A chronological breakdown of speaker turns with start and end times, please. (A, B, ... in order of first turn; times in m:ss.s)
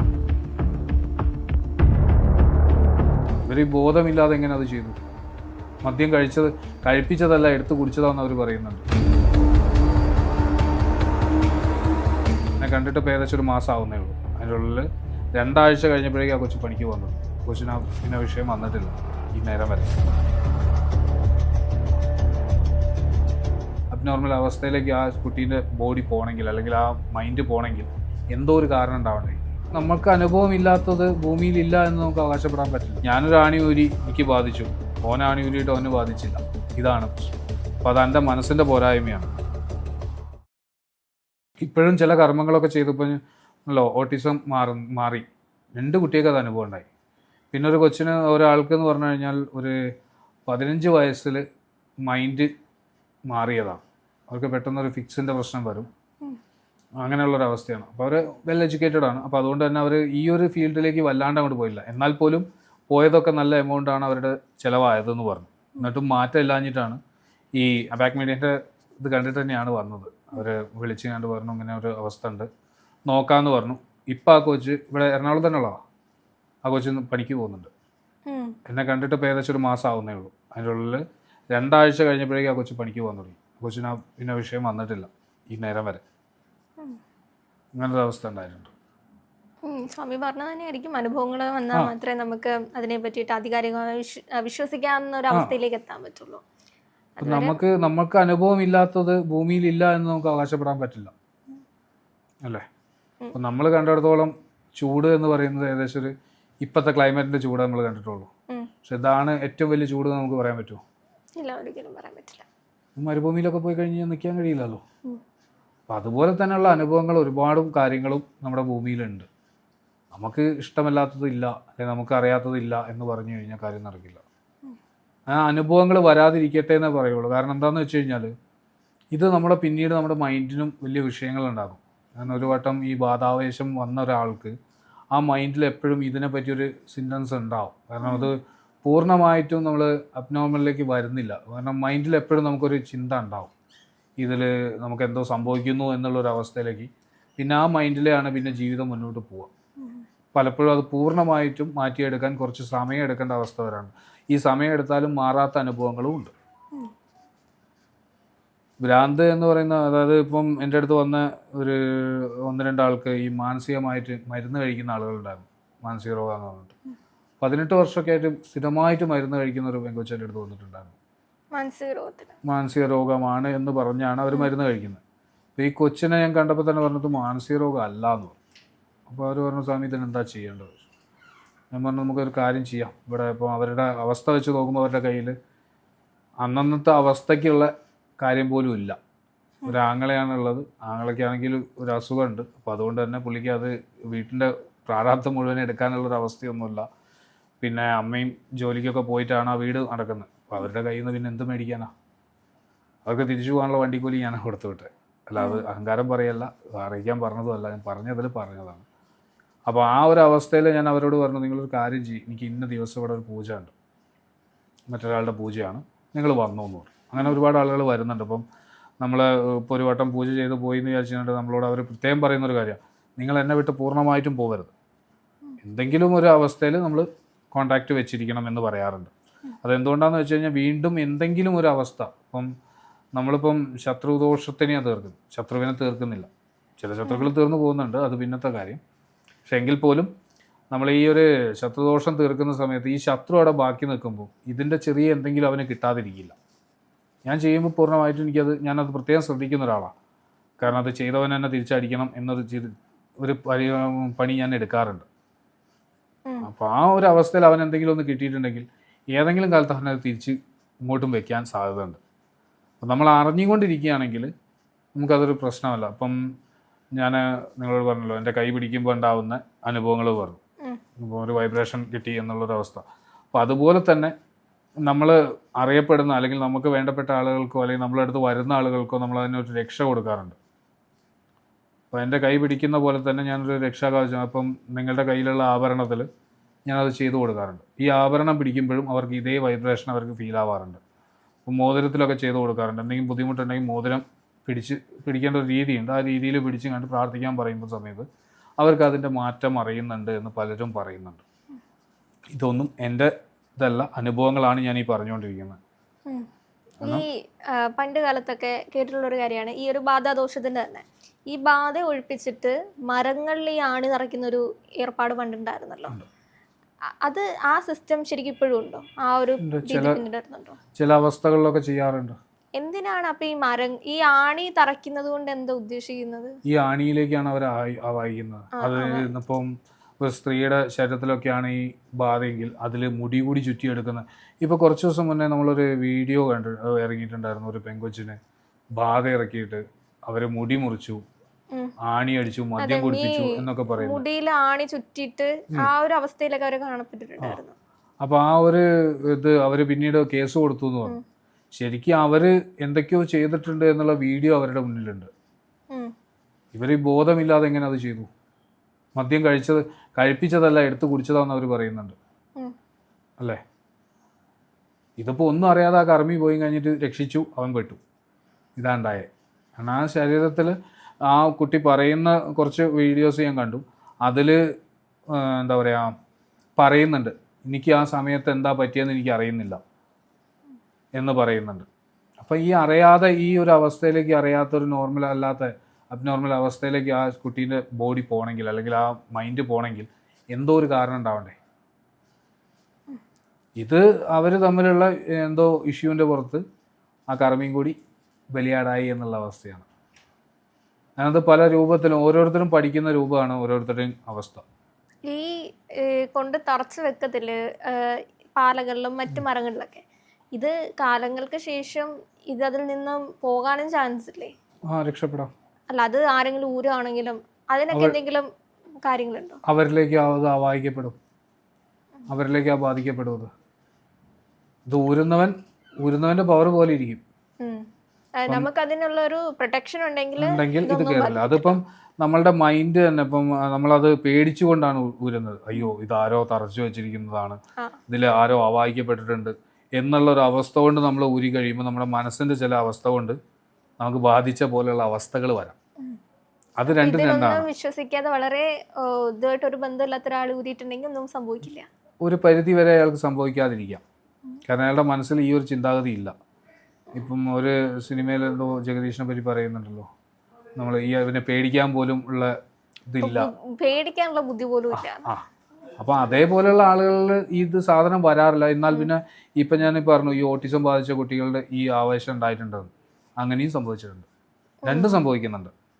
0:03.4-0:05.0 A
0:05.8-0:08.8 A
0:12.6-0:20.0 A
0:23.9-0:37.3 A
0:37.8-0:39.4 A
0:41.6-0:46.9 A
0:47.5-0:49.8 A
0:50.5-0:51.4 A
0:52.0-0:52.5 A
0:53.3-0:55.9 A
0:57.0-1:07.0 A
1:07.6-1:12.5 A
1:13.1-1:15.8 A
1:16.6-1:17.7 A
1:18.3-1:18.6 B
1:18.6-1:26.0 A
1:27.7-1:28.7 A
1:29.6-1:36.4 B
1:37.2-1:37.6 B
1:37.2-1:41.1 A
1:43.3-1:48.3 A
1:48.8-1:50.8 A
1:51.4-1:52.4 B
1:53.0-1:54.8 A
1:55.9-1:59.3 A
2:00.1-2:04.2 A
2:05.3-2:08.3 A
2:09.1-2:14.5 A
2:15.1-2:23.5 A
2:18.0-2:18.3 B
2:24.2-2:29.5 A
2:30.3-2:36.3 A
2:38.8-2:46.7 A
2:47.4-2:50.9 A
2:51.5-2:52.3 B
2:52.4-2:55.0 A
2:55.6-2:58.4 A
2:59.1-3:00.8 A
3:01.7-3:05.3 A
3:06.4-3:09.0 A
3:09.7-3:16.8 A
3:17.6-3:21.9 A
3:23.0-3:28.8 A
3:25.4-3:25.6 B
3:29.7-3:33.7 A
3:34.9-3:38.4 A
3:39.0-3:44.7 A
3:45.6-3:49.1 A
3:49.6-3:52.5 A
3:53.1-3:58.8 A
3:57.0-3:57.3 B
3:59.4-4:00.1 A
4:00.7-4:06.4 A
4:07.2-4:09.9 A
4:10.6-4:15.0 A
4:16.4-4:22.0 A
4:22.8-4:24.3 A
4:25.0-4:26.2 A
4:27.0-4:30.4 A
4:31.0-4:34.1 A
4:34.8-4:40.4 A
4:41.9-4:46.1 A
4:46.6-4:50.8 A
4:51.4-4:58.0 A
4:58.6-5:01.2 A
5:02.3-5:05.6 A
5:06.8-5:15.9 B
5:17.0-5:20.6 B
5:19.4-5:20.0 A
5:20.7-5:22.2 A
5:22.6-5:26.4 B
5:26.5-5:38.2 A
5:28.6-5:29.1 B
5:38.8-5:41.0 A
5:41.8-5:44.0 A
5:42.6-5:47.5 B
5:48.0-5:51.0 A
5:51.5-5:55.1 A
5:56.5-5:58.1 A
5:59.0-6:01.9 A
6:05.0-6:07.8 A
6:08.6-6:14.4 A
6:15.1-6:15.9 A
6:16.6-6:19.6 A
6:21.0-6:21.6 A
6:22.2-6:31.4 A
6:33.6-6:36.4 A
6:37.1-6:37.8 A
6:38.3-6:39.6 A
6:41.0-6:44.4 A
6:45.1-6:54.3 B
6:54.7-6:55.3 A
6:55.7-6:58.3 B
6:58.8-6:59.4 B
6:59.4-7:01.0 A
7:02.1-7:03.3 A
7:04.7-7:07.0 A
7:08.2-7:11.6 B
7:10.2-7:23.2 A
7:23.8-7:25.6 A
7:26.6-7:27.4 A
7:26.7-7:31.7 B
7:32.0-7:33.8 A
7:34.5-7:36.1 A
7:36.9-7:39.8 A
7:40.6-7:42.3 A
7:42.9-7:43.3 A
7:43.0-7:45.1 B
7:44.7-7:45.2 A
7:45.8-7:54.1 A
7:54.6-7:55.0 B
7:54.6-7:55.5 A